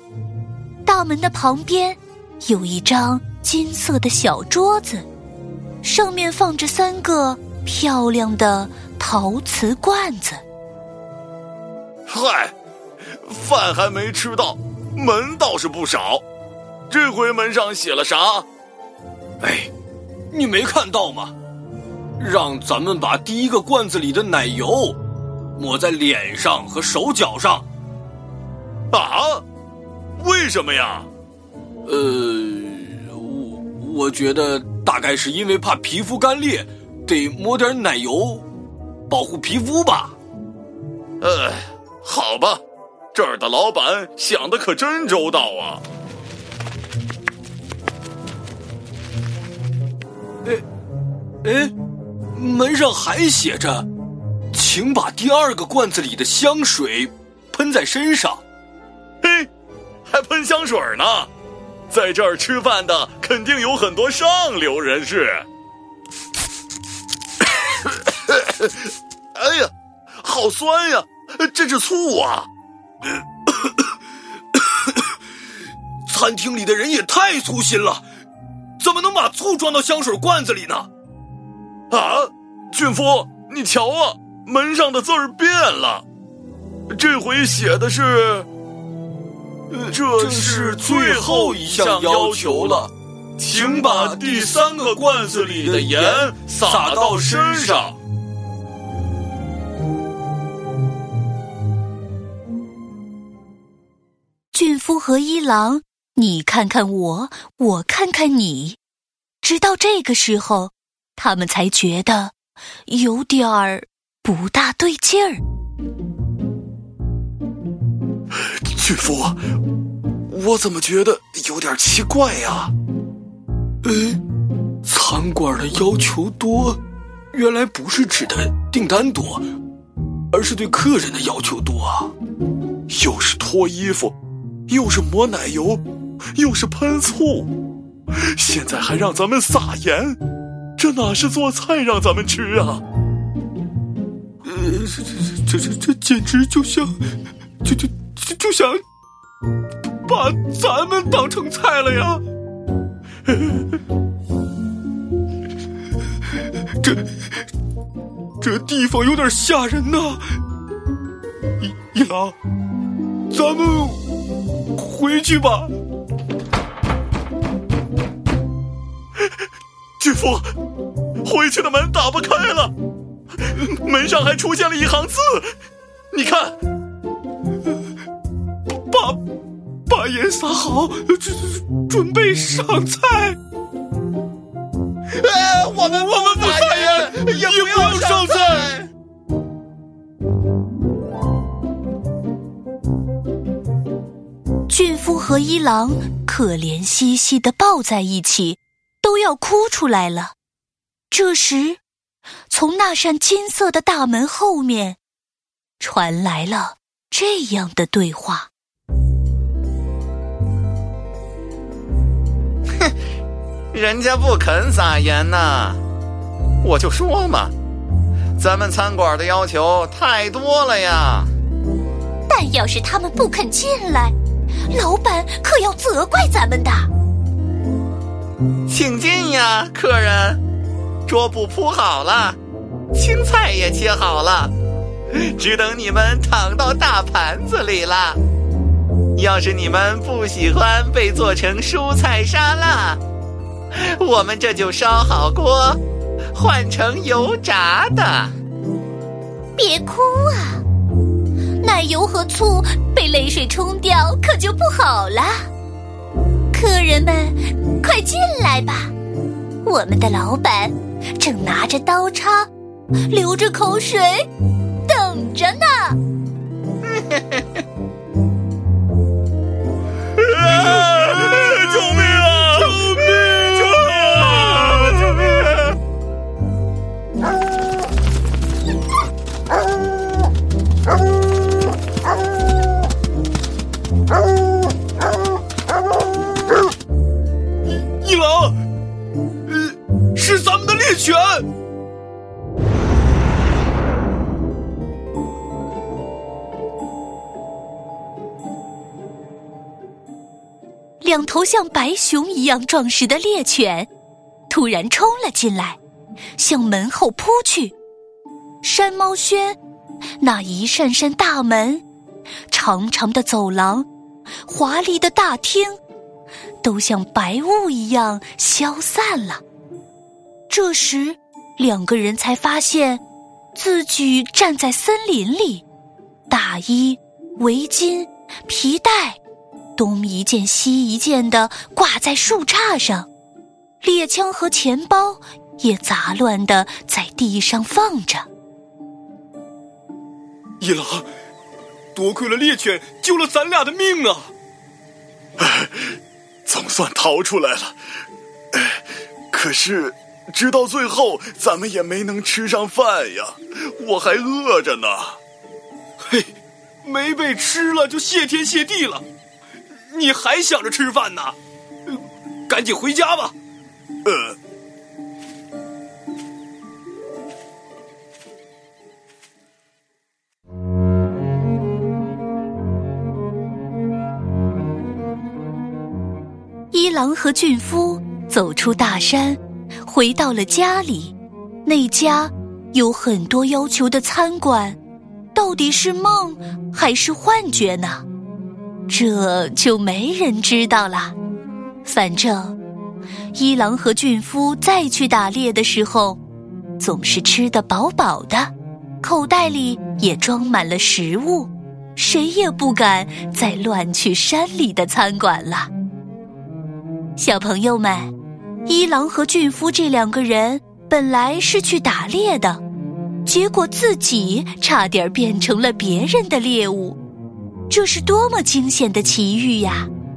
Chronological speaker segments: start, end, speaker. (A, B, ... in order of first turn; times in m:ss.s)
0:00.8-0:05.0 A
0:05.8-0:10.4 A
0:12.1-0:12.5 B
0:13.2-0:16.2 B
0:16.9-0:18.5 B
0:19.4-0:19.7 C
0:20.3-0:21.3 C
0:22.2-0:25.0 C
0:25.5-0:27.6 C
0:28.9-0:29.4 B
0:30.2-0:31.1 B
0:31.8-0:38.4 C
0:39.1-0:40.1 C
0:41.2-0:42.6 B
0:43.1-0:45.8 B
0:51.4-0:51.7 C
0:52.3-0:53.9 C
0:54.5-0:58.4 C
0:59.2-0:59.5 B
1:00.1-1:01.3 B
1:01.9-1:05.4 B
1:07.8-1:08.7 B
1:09.3-1:12.5 B
1:14.6-1:15.0 C
1:16.0-1:18.0 C
1:18.8-1:20.9 C
1:21.9-1:26.0 B
1:26.9-1:28.5 B
1:29.7-1:37.8 C
1:29.9-1:32.8 B
1:33.4-1:38.0 B
1:44.5-1:48.8 A
1:49.4-1:52.3 A
1:52.9-1:55.4 A
1:58.3-1:59.4 B
2:00.3-2:02.7 B
2:03.8-2:04.2 C
2:04.8-2:06.8 C
2:07.3-2:09.5 C
2:10.3-2:12.1 C
2:12.9-2:14.2 B
2:14.7-2:15.8 B
2:16.3-2:17.5 B
2:18.1-2:20.2 B
2:20.8-2:22.8 B
2:24.4-2:26.9 C
2:27.6-2:28.8 C
2:30.0-2:32.2 C
2:36.8-2:37.1 C
2:38.4-2:40.4 C
2:41.6-2:42.3 C
2:43.3-2:44.0 C
2:44.7-2:45.7 C
2:50.0-2:50.5 B
2:51.2-2:52.7 B
2:53.5-2:55.5 B
2:56.1-2:56.6 B
2:58.7-2:59.2 C
2:59.9-3:03.4 C
3:05.5-3:08.8 B
3:05.6-3:08.8 C
3:14.7-3:20.3 A
3:21.1-3:21.8 A
3:22.5-3:25.0 A
3:25.8-3:28.5 A
3:33.7-3:35.8 D
3:36.6-3:37.5 D
3:38.4-3:41.3 D
3:42.3-3:44.1 A
3:44.7-3:46.9 A
3:48.7-3:50.4 D
3:51.1-3:52.4 D
3:52.9-3:54.5 D
3:55.2-3:58.2 D
3:59.1-4:03.0 D
4:03.7-4:05.8 D
4:06.3-4:08.3 D
4:09.6-4:10.6 A
4:11.6-4:15.5 A
4:16.5-4:18.9 A
4:19.6-4:22.5 A
4:23.0-4:24.2 A
4:24.8-4:26.0 A
4:30.2-4:35.4 B
4:47.6-4:48.6 C
4:49.5-4:51.5 C
5:01.0-5:03.9 A
5:04.5-5:05.8 A
5:06.4-5:07.7 A
5:08.6-5:09.6 A
5:10.2-5:11.8 A
5:12.5-5:13.9 A
5:14.4-5:15.8 A
5:16.6-5:19.4 A
5:20.5-5:23.0 A
5:23.5-5:25.6 A
5:26.3-5:29.2 A
5:29.8-5:33.1 A
5:33.8-5:38.3 A
5:40.6-5:41.1 C
5:41.9-5:44.3 C
5:45.4-5:47.8 B
5:48.5-5:55.2 B
5:56.0-5:56.3 C
5:56.8-5:59.0 C
5:59.7-6:03.3 C
6:04.0-6:04.4 B
6:16.7-6:24.8 A
6:25.3-6:28.0 A
6:28.9-6:31.1 A
6:31.8-6:32.6 A
6:33.3-6:36.2 A
6:36.8-6:45.7 A
6:47.2-6:48.1 A
6:48.6-6:52.6 A
6:53.2-6:57.0 A
6:57.7-6:59.9 A